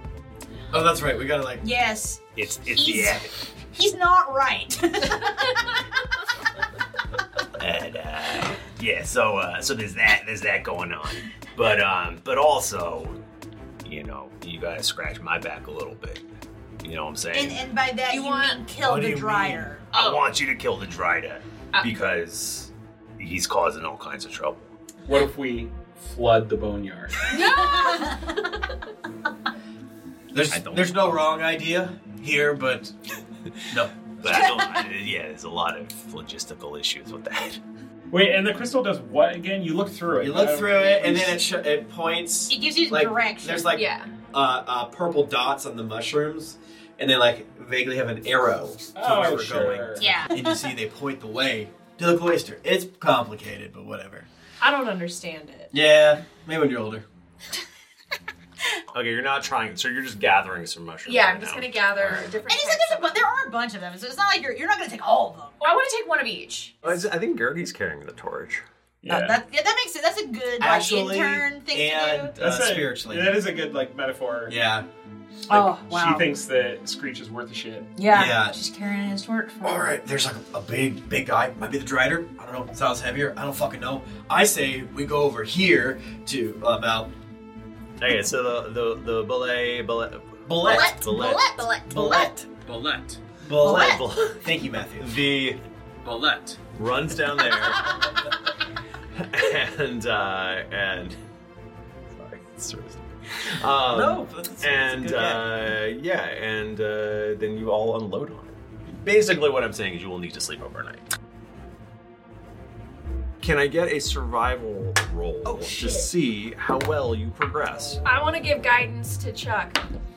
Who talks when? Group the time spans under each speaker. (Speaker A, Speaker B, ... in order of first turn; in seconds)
Speaker A: 0.7-1.6, 18.8-19.7, 30.3-32.9, 40.1-54.3, 55.7-57.0, 70.6-73.5, 74.5-74.9, 78.1-78.6, 79.6-87.1, 90.5-91.2, 91.9-92.5, 93.4-95.2, 103.8-105.6
Speaker B: 1.6-5.6, 17.3-19.9, 27.3-28.1, 34.3-34.8, 42.5-43.7, 50.0-50.7, 62.4-65.5, 69.1-72.3, 75.5-76.3, 78.0-80.0, 90.6-92.3, 93.6-94.0, 115.5-116.1
Speaker C: 2.4-3.3, 7.6-13.2, 13.8-16.2, 16.8-17.7, 19.9-24.7, 30.5-31.3, 34.2-37.6, 58.9-62.3, 66.8-68.6, 88.0-91.5, 93.6-94.4, 95.0-95.6, 96.7-98.0, 99.2-101.2, 102.1-111.1, 113.4-118.0
Speaker D: 18.1-18.6, 19.9-20.3, 27.3-28.4, 43.8-44.1, 54.6-55.7, 61.0-63.2, 65.6-66.8, 118.0-119.8
Speaker E: 25.1-27.2, 38.1-41.4, 48.9-50.3, 69.0-69.4, 72.4-74.6, 75.5-77.9